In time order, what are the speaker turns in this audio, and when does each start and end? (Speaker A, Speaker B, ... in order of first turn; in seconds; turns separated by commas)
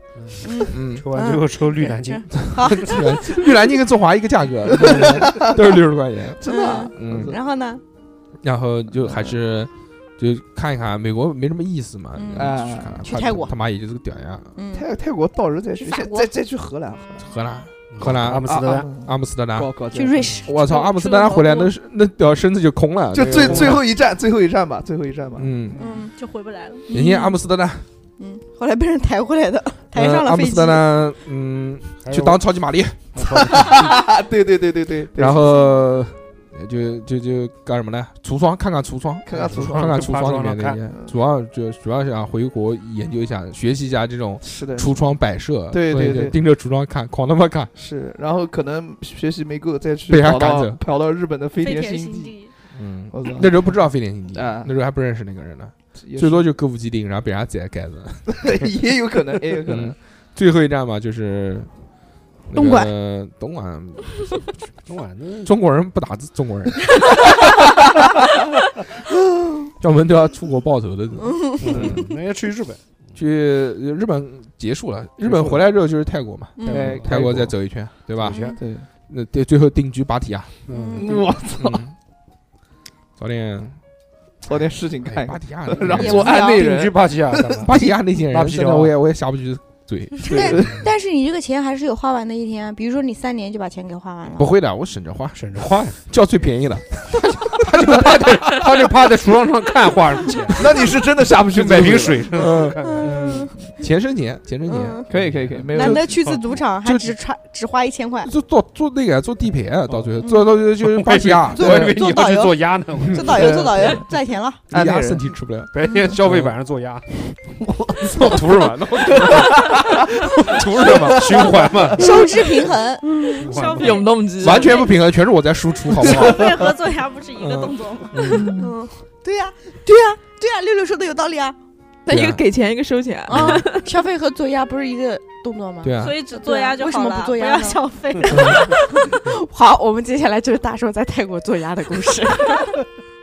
Speaker A: 0.2-2.9, Speaker B: 0.4-3.5, Speaker C: 0.6-1.1, Speaker C: 2.3-7.3, Speaker D: 4.7-5.6, Speaker D: 6.4-7.4, Speaker B: 6.4-7.8, Speaker C: 8.4-14.5, Speaker D: 9.0-9.3, Speaker B: 12.1-13.5, Speaker D: 12.3-13.0, Speaker B: 14.5-14.8, Speaker D: 14.7-17.3, Speaker B: 15.8-16.3, Speaker C: 17.2-19.8, Speaker A: 17.9-18.9, Speaker D: 18.4-20.4, Speaker B: 19.9-21.7, Speaker C: 20.4-23.8, Speaker D: 23.1-26.0, Speaker A: 23.1-23.8, Speaker C: 25.4-25.8, Speaker B: 25.8-26.1, Speaker E: 26.2-26.8, Speaker B: 26.9-27.4, Speaker C: 26.9-27.9, Speaker B: 28.2-30.8, Speaker C: 29.9-33.9, Speaker A: 32.0-32.4, Speaker A: 33.1-33.8, Speaker D: 33.3-35.5, Speaker C: 35.1-47.7, Speaker D: 39.2-40.0, Speaker A: 39.3-40.8, Speaker D: 44.4-45.0, Speaker D: 45.7-46.4, Speaker D: 47.7-52.3, Speaker C: 50.1-50.8, Speaker E: 51.6-52.5, Speaker C: 52.7-58.5, Speaker D: 53.1-53.7, Speaker D: 54.3-54.7, Speaker D: 56.0-56.5, Speaker D: 58.3-59.9, Speaker C: 59.7-61.7, Speaker C: 62.5-64.3, Speaker B: 62.5-62.9, Speaker A: 64.8-65.5, Speaker C: 65.4-67.3, Speaker C: 69.8-72.0, Speaker B: 71.3-71.7, Speaker A: 71.6-72.9, Speaker C: 73.1-80.6, Speaker A: 75.2-75.6, Speaker B: 76.6-76.9, Speaker A: 76.6-77.5, Speaker D: 76.7-77.5, Speaker A: 78.2-78.5, Speaker B: 78.2-78.6, Speaker D: 78.5-78.9, Speaker A: 80.7-81.2, Speaker B: 80.7-81.1, Speaker D: 80.9-81.8, Speaker C: 81.6-81.9, Speaker C: 83.2-83.8, Speaker D: 84.5-87.6, Speaker C: 85.1-86.3, Speaker B: 85.9-86.6, Speaker A: 86.0-88.9, Speaker C: 87.6-90.6, Speaker B: 90.2-94.5, Speaker D: 90.3-90.7, Speaker C: 94.4-98.7, Speaker A: 95.3-96.0, Speaker A: 97.6-100.8, Speaker D: 100.6-102.4, Speaker A: 101.5-103.5, Speaker C: 102.3-103.1, Speaker B: 102.8-103.7, Speaker C: 103.8-105.1, Speaker B: 104.7-105.0, Speaker D: 105.1-106.1, Speaker A: 105.3-106.6, Speaker B: 105.7-108.3, Speaker C: 106.8-107.2, Speaker C: 108.2-111.9, Speaker B: 110.2-110.6, Speaker A: 110.8-113.7, Speaker B: 111.5-114.6, Speaker D: 113.2-114.1, Speaker D: 114.7-115.3, Speaker C: 114.7-116.5, Speaker A: 115.7-117.0, Speaker D: 117.7-120.2, Speaker C: 118.0-122.1, Speaker A: 118.1-119.5, Speaker A: 120.5-122.3, Speaker B: 121.9-123.5, Speaker A: 123.4-124.0, Speaker E: 123.4-124.8, Speaker F: 123.8-124.9, Speaker C: 124.4-126.8, Speaker E: 126.0-128.5, Speaker C: 127.3-128.6, Speaker D: 128.3-128.7, Speaker B: 128.5-131.6, Speaker F: 132.1-133.9, Speaker C: 132.1-132.4, Speaker B: 133.3-142.8, Speaker C: 135.8-136.2, Speaker E: 136.0-139.2, Speaker C: 138.3-138.6